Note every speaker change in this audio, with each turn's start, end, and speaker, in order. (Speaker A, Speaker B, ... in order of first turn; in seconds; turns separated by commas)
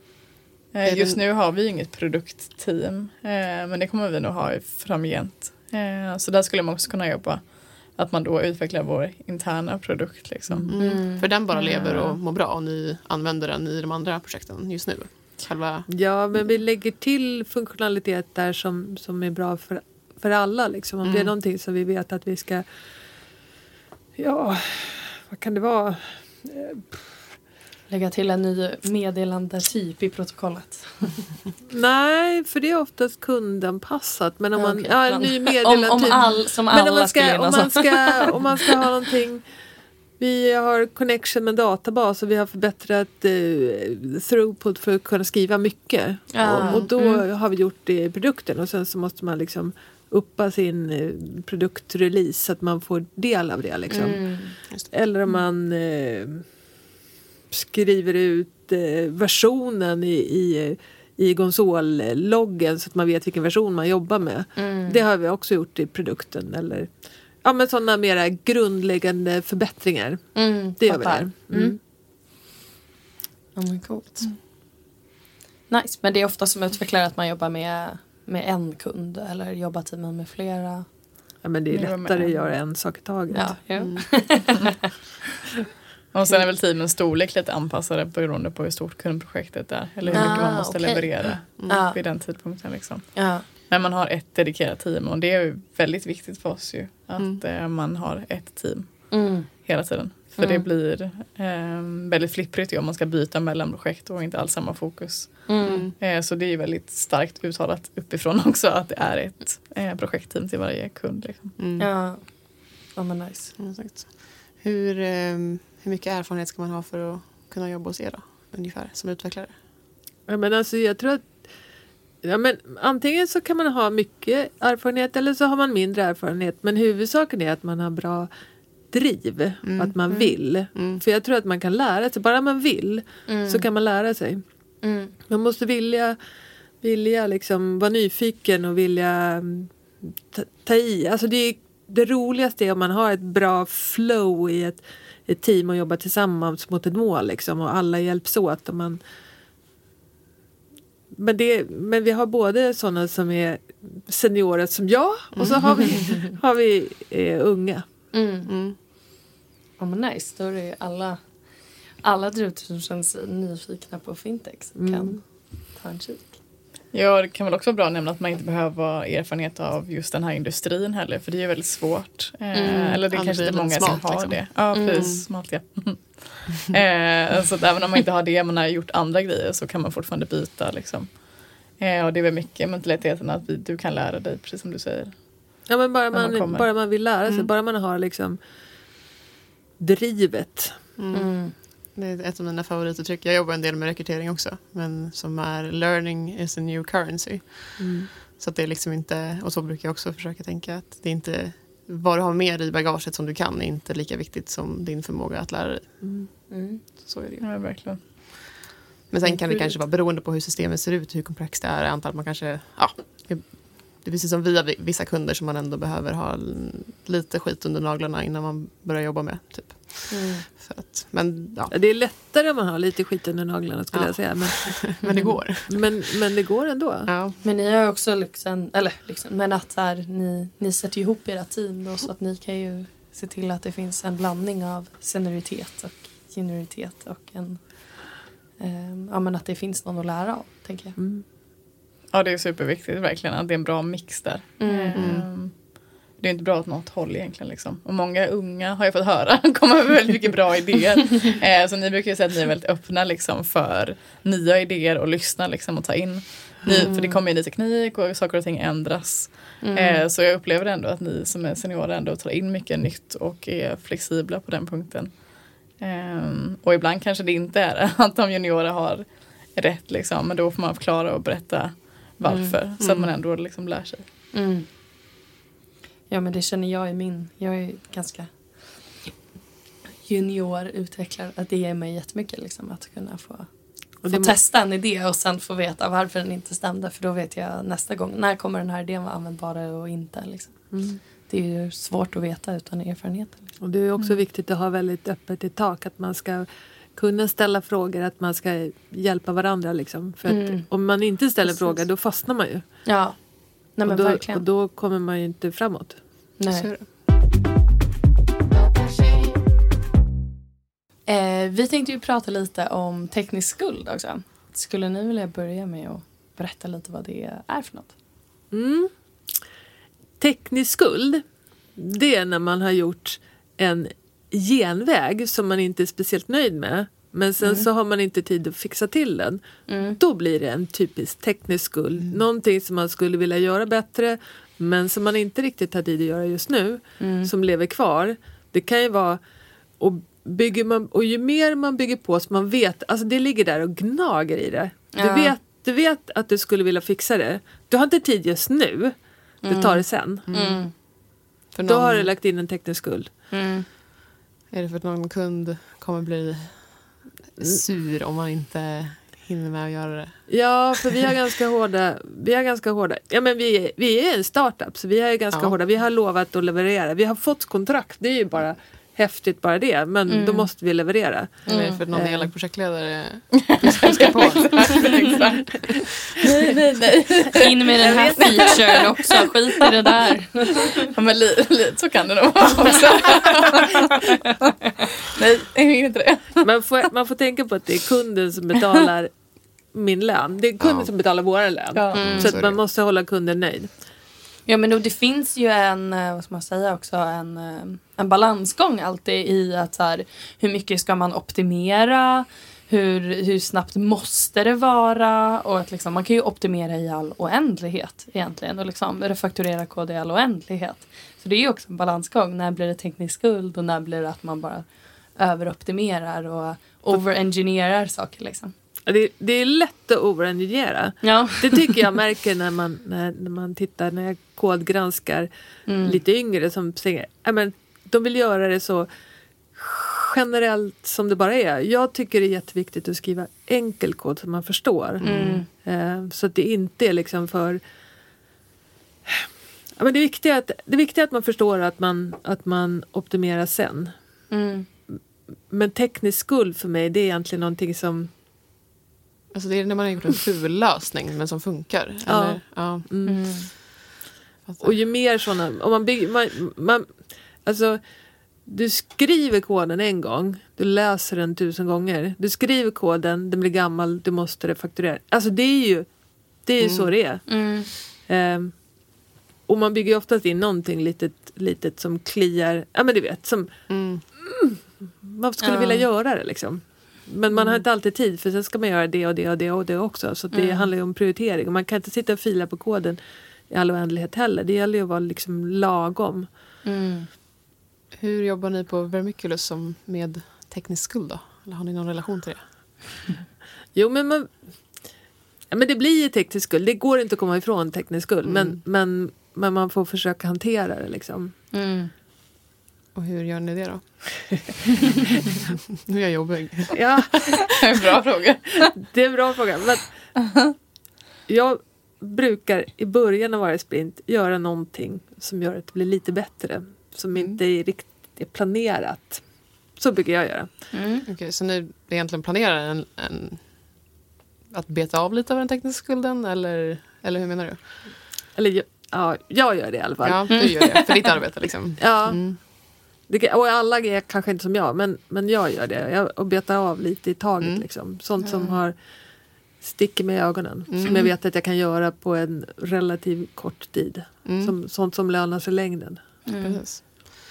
Speaker A: 0.7-10.9, Speaker B: 0.8-1.2, Speaker B: 10.7-15.9, Speaker C: 10.8-11.3, Speaker A: 11.5-12.2, Speaker D: 15.9-22.6, Speaker B: 21.0-21.3, Speaker D: 24.1-27.0, Speaker C: 27.9-31.3, Speaker D: 31.7-39.4, Speaker C: 34.5-38.3, Speaker D: 40.2-56.5, Speaker C: 46.3-46.9, Speaker C: 53.9-54.6, Speaker D: 57.5-71.8, Speaker C: 64.5-65.0, Speaker C: 70.3-71.8, Speaker C: 73.5-74.2, Speaker B: 73.9-74.2, Speaker C: 75.7-80.9, Speaker D: 81.4-83.6, Speaker A: 81.7-82.5, Speaker C: 83.3-84.7, Speaker B: 83.8-84.1, Speaker A: 86.1-111.5, Speaker B: 90.1-90.8, Speaker C: 90.1-92.0, Speaker B: 91.6-91.8, Speaker C: 93.1-93.4, Speaker C: 99.1-99.7, Speaker C: 100.4-100.6, Speaker C: 105.5-105.8, Speaker B: 105.7-105.9, Speaker B: 111.6-111.9, Speaker C: 111.8-113.5, Speaker B: 113.6-119.5, Speaker D: 120.3-121.5, Speaker D: 122.2-128.3, Speaker D: 128.9-134.4, Speaker B: 129.6-129.9, Speaker B: 130.7-131.0, Speaker C: 133.2-133.7, Speaker C: 134.8-135.1, Speaker D: 135.3-136.2, Speaker D: 136.8-149.0, Speaker D: 151.2-157.8, Speaker B: 155.3-156.1, Speaker C: 158.1-158.5, Speaker B: 158.5-158.8, Speaker C: 159.8-166.3, Speaker D: 164.7-165.2, Speaker A: 166.9-186.9, Speaker C: 172.5-173.0, Speaker B: 173.1-175.2, Speaker C: 174.7-175.1, Speaker D: 185.7-188.4, Speaker D: 189.8-190.8, Speaker B: 191.0-208.1, Speaker C: 191.1-191.5, Speaker D: 197.8-198.1, Speaker D: 206.0-206.3, Speaker C: 206.5-206.8, Speaker A: 207.4-208.0, Speaker B: 209.1-221.7, Speaker C: 209.3-209.7, Speaker C: 220.1-220.4, Speaker D: 221.7-227.1, Speaker B: 223.9-225.9, Speaker B: 227.0-227.4, Speaker C: 227.4-241.0, Speaker D: 240.9-241.2, Speaker A: 242.1-274.1, Speaker C: 244.6-245.1, Speaker B: 244.9-245.3, Speaker B: 256.7-257.0, Speaker C: 256.8-257.2, Speaker C: 259.6-260.1, Speaker C: 272.2-272.6, Speaker B: 272.3-273.1, Speaker C: 274.3-274.7, Speaker C: 276.1-279.1, Speaker C: 280.0-294.2, Speaker D: 284.0-284.4, Speaker D: 290.7-291.0, Speaker D: 293.6-302.7, Speaker C: 300.3-301.9, Speaker C: 302.8-304.4, Speaker D: 303.8-306.0, Speaker C: 306.4-306.7, Speaker B: 306.5-306.9, Speaker C: 311.1-317.9, Speaker D: 318.5-318.9, Speaker D: 320.2-321.2, Speaker D: 321.7-350.3, Speaker C: 327.4-327.7, Speaker C: 329.7-330.0, Speaker C: 337.0-337.3, Speaker C: 344.9-345.3, Speaker C: 349.4-350.7, Speaker B: 350.3-350.8, Speaker B: 351.5-352.1, Speaker D: 351.6-353.1, Speaker C: 353.3-353.6, Speaker B: 354.5-360.6, Speaker D: 360.3-372.3, Speaker C: 370.1-370.5, Speaker C: 371.4-371.8, Speaker B: 371.5-375.7, Speaker A: 373.8-378.5, Speaker C: 377.4-380.7, Speaker D: 377.8-378.6, Speaker A: 380.9-386.4, Speaker D: 386.4-393.7, Speaker B: 390.6-390.9, Speaker A: 391.7-392.2, Speaker C: 391.9-392.4, Speaker B: 392.0-392.6, Speaker C: 394.4-418.5, Speaker D: 418.9-425.3, Speaker C: 421.0-421.6, Speaker C: 425.6-426.0, Speaker D: 425.8-428.9, Speaker D: 429.5-437.6, Speaker B: 435.0-435.4, Speaker C: 435.0-435.5, Speaker D: 439.1-443.9, Speaker C: 444.3-444.7, Speaker D: 445.5-448.1, Speaker B: 449.3-453.2, Speaker D: 452.1-453.2, Speaker C: 453.0-453.5, Speaker B: 454.4-454.8, Speaker D: 454.6-486.3, Speaker B: 466.6-466.9, Speaker C: 467.2-467.7, Speaker B: 473.7-474.0, Speaker C: 475.4-475.9, Speaker C: 477.3-477.6, Speaker C: 480.3-480.7, Speaker C: 486.6-487.1, Speaker B: 487.9-492.9, Speaker D: 493.7-494.9, Speaker D: 495.5-501.3, Speaker B: 498.2-498.6, Speaker C: 501.5-501.9, Speaker B: 502.9-504.6, Speaker B: 505.9-507.1, Speaker D: 506.7-507.6, Speaker A: 507.6-508.7, Speaker D: 508.7-510.1, Speaker D: 511.3-520.7, Speaker B: 517.1-517.4, Speaker C: 520.7-521.0, Speaker B: 521.0-523.9, Speaker B: 524.5-528.0, Speaker D: 528.3-530.7, Speaker B: 530.0-532.4, Speaker C: 530.3-530.6, Speaker D: 531.8-546.0, Speaker B: 537.4-537.7, Speaker C: 538.2-538.6, Speaker B: 540.7-541.1, Speaker B: 544.2-544.5, Speaker C: 546.2-546.6, Speaker B: 546.4-546.8